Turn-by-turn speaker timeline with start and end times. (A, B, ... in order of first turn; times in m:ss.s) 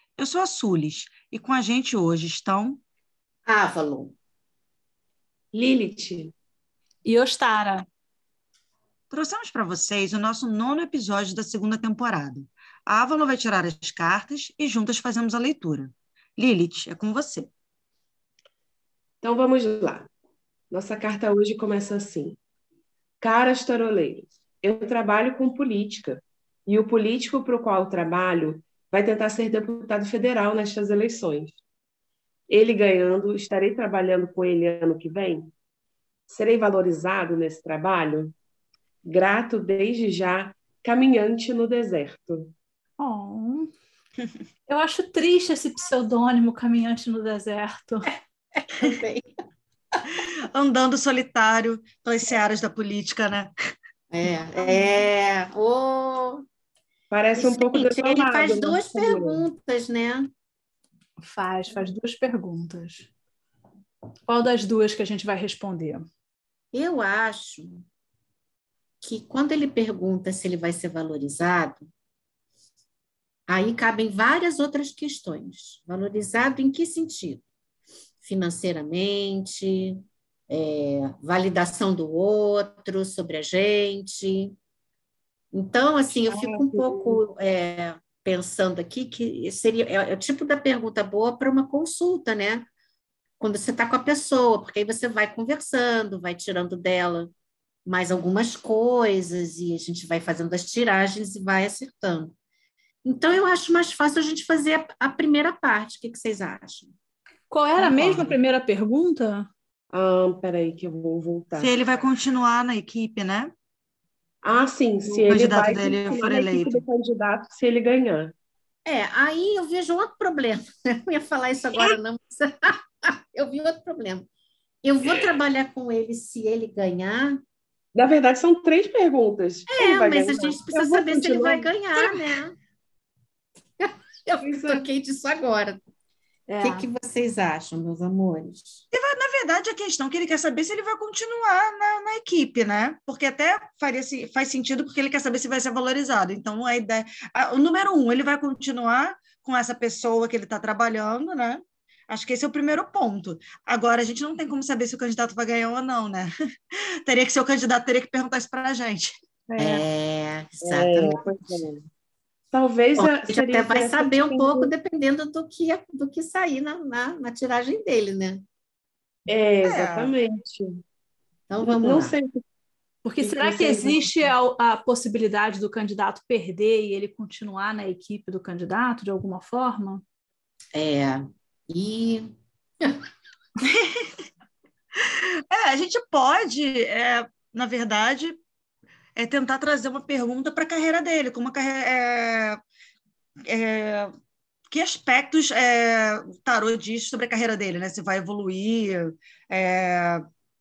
0:00.2-0:02.8 A
0:03.4-0:04.1 B
0:05.5-0:06.3 C
0:07.0-0:07.9 D
0:09.1-0:17.5 A
0:19.2-0:20.1 C
0:20.7-0:22.4 C
0:23.2-0:31.6 C
0:32.5-0:35.5 C
0:36.3-0:38.4 C
0:39.0-0:42.5 C
0:43.0-0:43.7 D
0:44.7-0:48.1 D
0:48.6-0:49.3 B
0:50.1-0:53.5 A
0:54.1-0:56.4 B
0:57.1-0:59.4 C
0:57.4-1:00.3 B
1:01.2-1:03.1 D
1:04.3-1:06.0 D
1:06.7-1:07.8 B
1:09.0-1:11.9 B
1:13.5-1:17.4 B
1:18.2-1:24.5 B
1:25.5-1:32.7 B
1:26.3-1:27.2 C
1:33.4-1:37.3 B
1:37.8-1:42.3 B
1:43.0-1:46.9 B
1:47.5-1:49.5 D
1:49.9-1:51.8 C
1:51.6-1:53.5 A
1:54.4-1:58.3 C
1:55.1-1:56.8 A
1:58.8-2:04.3 B
2:04.8-2:07.4 B
2:07.9-2:12.2 C
2:09.7-2:12.6 B
2:13.8-2:15.8 B
2:14.4-2:14.8 C
2:16.5-2:16.9 D
2:16.6-2:18.8 B
2:18.9-2:39.1 A
2:39.5-2:39.8 C
2:39.6-2:41.3 B
2:40.6-2:41.8 C
2:42.5-2:44.7 C
2:43.0-2:48.4 B
2:49.3-2:50.8 C
2:49.6-2:50.1 A
2:51.5-2:52.2 B
2:51.6-2:52.4 C
2:53.0-3:00.0 D
2:53.2-2:54.3 C
3:00.7-3:03.0 B
3:03.6-3:04.1 A
3:05.0-3:08.4 A
3:09.2-3:12.6 A
3:13.4-3:14.1 A
3:14.7-3:20.2 A